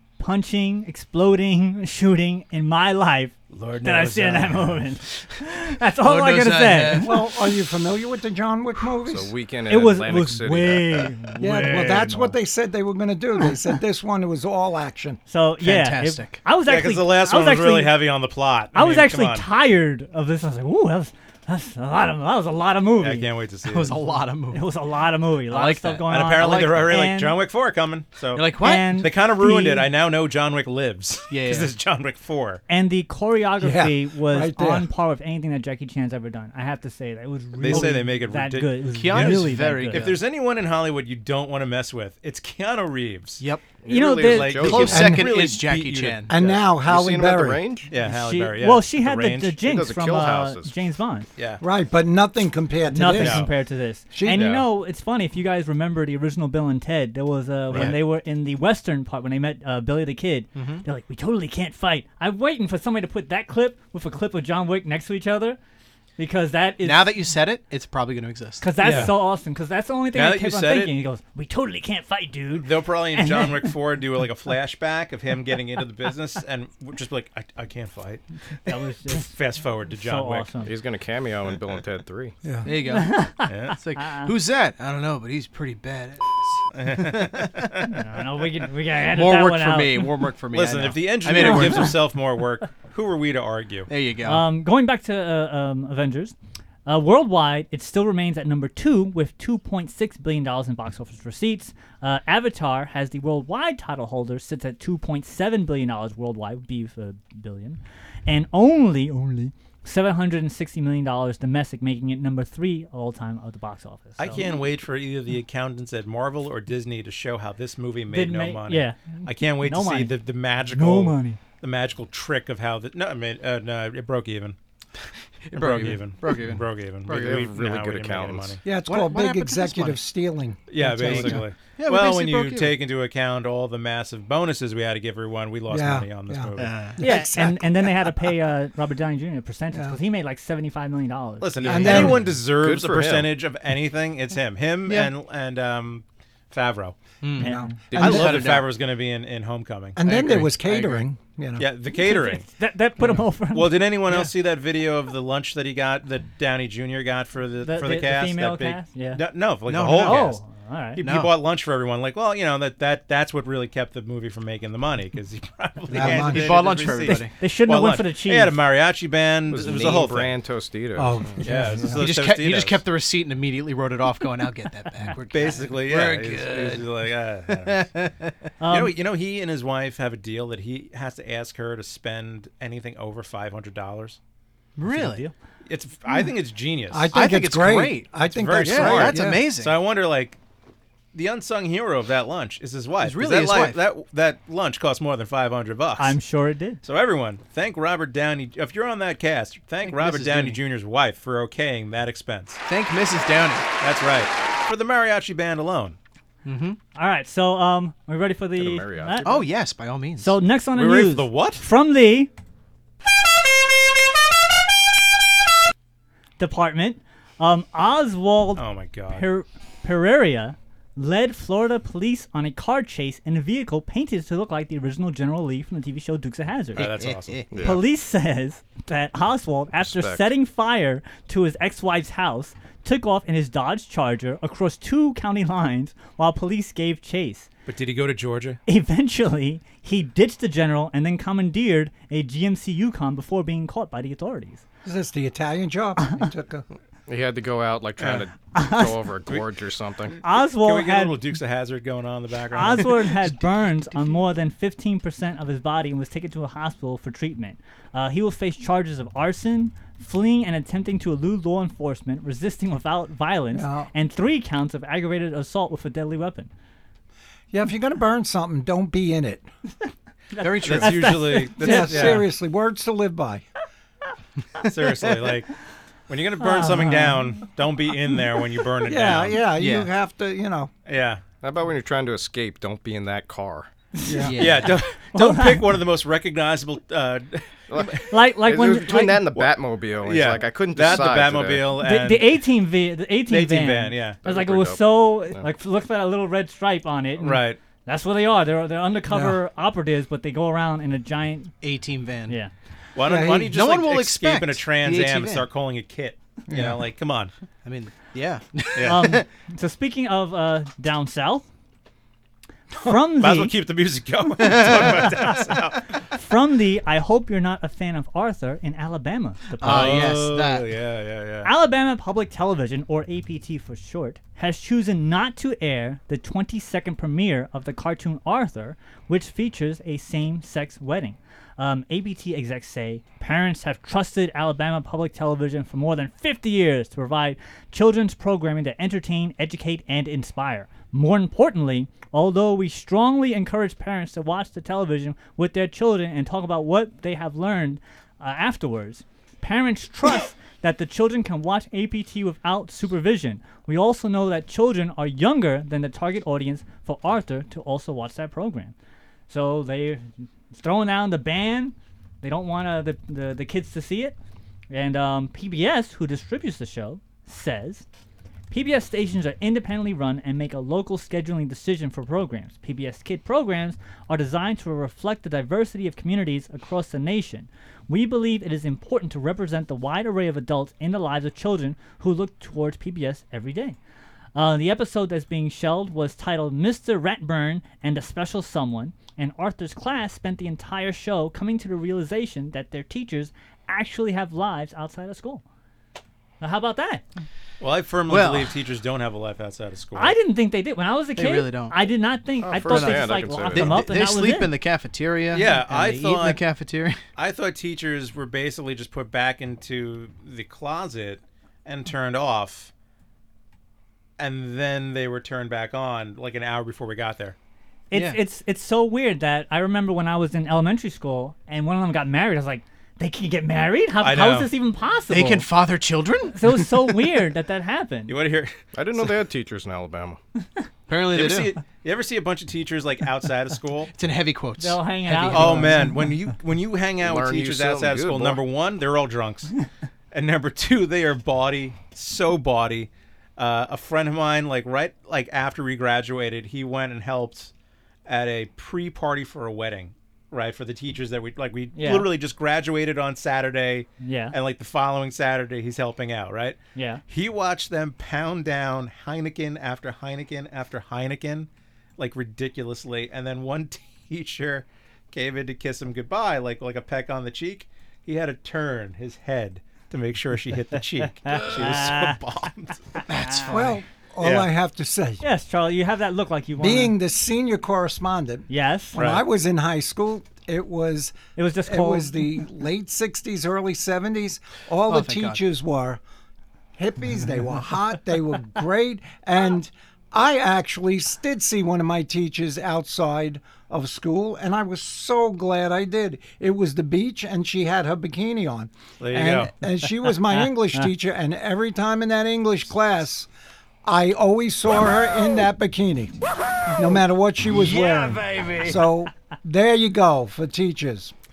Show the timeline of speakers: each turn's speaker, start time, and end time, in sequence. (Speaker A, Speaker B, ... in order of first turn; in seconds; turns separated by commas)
Speaker A: 0.2-7.2, Speaker B: 3.5-4.8, Speaker C: 6.0-7.2, Speaker D: 7.0-9.3, Speaker E: 9.1-11.1, Speaker A: 9.7-12.3, Speaker D: 11.4-15.2, Speaker A: 15.3-17.9, Speaker C: 15.6-16.4, Speaker B: 16.6-19.5, Speaker A: 18.7-23.3, Speaker B: 23.0-24.0, Speaker C: 23.6-24.7, Speaker A: 24.5-27.4, Speaker C: 25.5-26.9, Speaker B: 26.1-32.6, Speaker C: 28.3-29.1, Speaker A: 28.6-29.9, Speaker C: 31.3-31.7, Speaker A: 32.7-40.1, Speaker D: 33.6-34.9, Speaker B: 37.6-43.4, Speaker C: 37.7-37.9, Speaker C: 38.9-40.2, Speaker C: 43.4-43.7, Speaker E: 43.8-45.3, Speaker A: 43.9-44.8, Speaker B: 44.2-46.3, Speaker C: 44.6-46.4, Speaker D: 44.9-45.2, Speaker D: 46.3-47.6, Speaker E: 46.4-47.9, Speaker B: 47.9-49.6, Speaker A: 48.0-51.3, Speaker E: 49.6-50.7, Speaker B: 51.4-51.6, Speaker D: 51.6-53.5, Speaker A: 52.9-65.6, Speaker B: 53.2-53.5, Speaker D: 54.1-54.5, Speaker B: 57.7-58.0, Speaker C: 57.7-58.0, Speaker C: 60.5-60.8, Speaker A: 66.2-67.1, Speaker C: 66.8-69.1, Speaker A: 68.6-73.7, Speaker B: 68.8-69.2, Speaker B: 70.1-70.9, Speaker B: 72.6-78.2, Speaker A: 78.6-79.3, Speaker B: 79.1-80.5, Speaker A: 79.9-80.7, Speaker E: 80.6-82.3, Speaker C: 82.6-87.8, Speaker A: 82.9-84.3, Speaker B: 83.5-83.8, Speaker B: 86.7-87.9, Speaker A: 87.9-90.2, Speaker C: 89.0-92.0, Speaker B: 90.5-93.9, Speaker A: 91.3-92.0, Speaker C: 93.9-94.5, Speaker A: 94.2-96.3, Speaker A: 96.8-114.4, Speaker B: 114.2-124.6, Speaker A: 118.1-120.1, Speaker A: 120.7-121.4, Speaker C: 125.5-127.3, Speaker B: 125.5-128.6, Speaker E: 127.1-128.6, Speaker D: 128.6-131.4, Speaker C: 128.8-130.0, Speaker B: 130.7-136.7, Speaker C: 130.9-132.8, Speaker D: 135.7-138.1, Speaker C: 136.6-137.0, Speaker A: 137.0-141.7, Speaker D: 139.7-140.0, Speaker B: 141.4-147.0, Speaker D: 141.6-142.2, Speaker C: 141.6-141.9, Speaker E: 141.7-143.3, Speaker C: 144.9-145.1, Speaker C: 147.2-148.7, Speaker D: 147.4-148.3, Speaker A: 147.4-147.8, Speaker E: 147.9-148.6, Speaker B: 147.9-150.0, Speaker D: 149.9-151.7, Speaker C: 150.0-151.1, Speaker B: 151.6-152.5, Speaker A: 152.0-153.8, Speaker B: 153.5-160.4, Speaker C: 154.1-154.3, Speaker A: 157.6-159.2, Speaker C: 159.7-160.4, Speaker A: 160.0-161.0, Speaker B: 161.0-170.3, Speaker C: 161.0-161.4, Speaker C: 165.9-167.3, Speaker D: 165.9-166.7, Speaker A: 167.1-168.6, Speaker E: 169.5-171.4, Speaker D: 170.9-172.0, Speaker B: 171.4-172.8, Speaker C: 171.8-178.3, Speaker B: 175.3-177.9, Speaker A: 178.6-178.9, Speaker B: 178.7-184.2, Speaker C: 184.8-185.2, Speaker A: 184.9-185.3, Speaker B: 185.7-187.1, Speaker D: 186.9-189.4, Speaker C: 187.1-189.8, Speaker B: 188.3-190.4, Speaker B: 191.1-196.2, Speaker C: 193.0-193.8, Speaker A: 196.0-196.8, Speaker B: 196.8-202.6, Speaker C: 199.8-200.6, Speaker C: 202.7-203.7, Speaker B: 203.8-206.0, Speaker C: 206.4-206.8, Speaker A: 206.9-209.4, Speaker E: 208.6-209.5, Speaker C: 209.2-210.3, Speaker A: 210.2-212.3, Speaker B: 210.7-211.6, Speaker A: 216.4-226.9, Speaker B: 218.6-219.2, Speaker B: 226.8-227.4, Speaker C: 226.8-227.5, Speaker E: 227.5-227.8, Speaker A: 227.6-237.5, Speaker E: 229.8-230.3, Speaker B: 237.7-238.6, Speaker A: 238.7-244.6, Speaker D: 244.8-246.6, Speaker E: 247.1-250.2, Speaker B: 248.0-248.3, Speaker A: 248.5-249.1, Speaker A: 250.2-251.2, Speaker B: 250.6-253.4, Speaker A: 252.5-266.5, Speaker D: 263.5-263.9, Speaker D: 267.5-269.5, Speaker A: 270.3-272.2, Speaker C: 270.4-271.2, Speaker B: 270.6-272.2, Speaker D: 271.6-273.4, Speaker B: 274.6-275.5, Speaker B: 276.1-279.4, Speaker A: 276.4-277.4, Speaker D: 278.8-280.7, Speaker C: 279.6-279.9, Speaker B: 280.9-281.2, Speaker E: 281.4-283.7, Speaker A: 283.9-284.5, Speaker D: 284.1-284.4, Speaker C: 284.2-284.8, Speaker B: 284.4-288.1, Speaker A: 285.1-285.8, Speaker E: 287.7-291.7, Speaker A: 288.1-289.3, Speaker B: 289.3-292.4, Speaker A: 291.8-301.5, Speaker B: 293.3-294.2, Speaker E: 294.2-295.4, Speaker B: 297.2-297.6, Speaker D: 299.1-299.4, Speaker C: 301.6-302.4, Speaker B: 302.9-307.3, Speaker D: 303.0-303.5, Speaker C: 303.4-305.5, Speaker D: 306.5-306.7, Speaker C: 307.6-309.2, Speaker B: 308.8-309.0, Speaker A: 308.8-311.5, Speaker A: 312.8-313.5, Speaker B: 313.1-315.9, Speaker C: 314.4-315.2, Speaker A: 316.1-320.1, Speaker C: 319.6-320.7, Speaker B: 319.6-321.5, Speaker A: 321.4-358.7, Speaker A: 359.3-364.1, Speaker A: 364.7-367.8, Speaker A: 368.5-383.8, Speaker A: 384.3-395.4, Speaker A: 396.4-397.0, Speaker B: 397.6-400.2, Speaker C: 398.1-398.5, Speaker A: 399.9-404.5, Speaker C: 401.1-401.8, Speaker E: 402.4-403.9, Speaker C: 402.6-407.0, Speaker B: 405.3-406.4, Speaker B: 407.1-412.7, Speaker B: 414.2-417.4, Speaker A: 417.9-425.5, Speaker C: 417.9-418.2, Speaker B: 424.0-424.5, Speaker C: 425.1-426.9, Speaker A: 426.3-428.1, Speaker B: 428.1-428.6, Speaker E: 428.7-430.2, Speaker C: 430.9-431.6, Speaker B: 431.1-433.9, Speaker C: 433.9-435.9, Speaker A: 434.6-436.0, Speaker B: 435.3-439.5, Speaker E: 437.0-438.4, Speaker B: 440.1-447.5, Speaker B: 448.1-473.0, Speaker A: 451.7-452.1, Speaker A: 454.0-454.4, Speaker A: 456.7-457.0, Speaker A: 471.2-472.2, Speaker C: 473.1-473.8, Speaker A: 473.2-473.5, Speaker D: 473.5-475.2, Speaker B: 474.2-474.5, Speaker A: 475.2-476.9, Speaker D: 476.6-486.0, Speaker A: 478.5-479.0, Speaker B: 478.9-479.2, Speaker A: 481.4-482.4, Speaker C: 484.9-485.4, Speaker D: 486.8-503.3, Speaker B: 499.0-499.5, Speaker D: 503.8-506.1, Speaker D: 506.7-511.1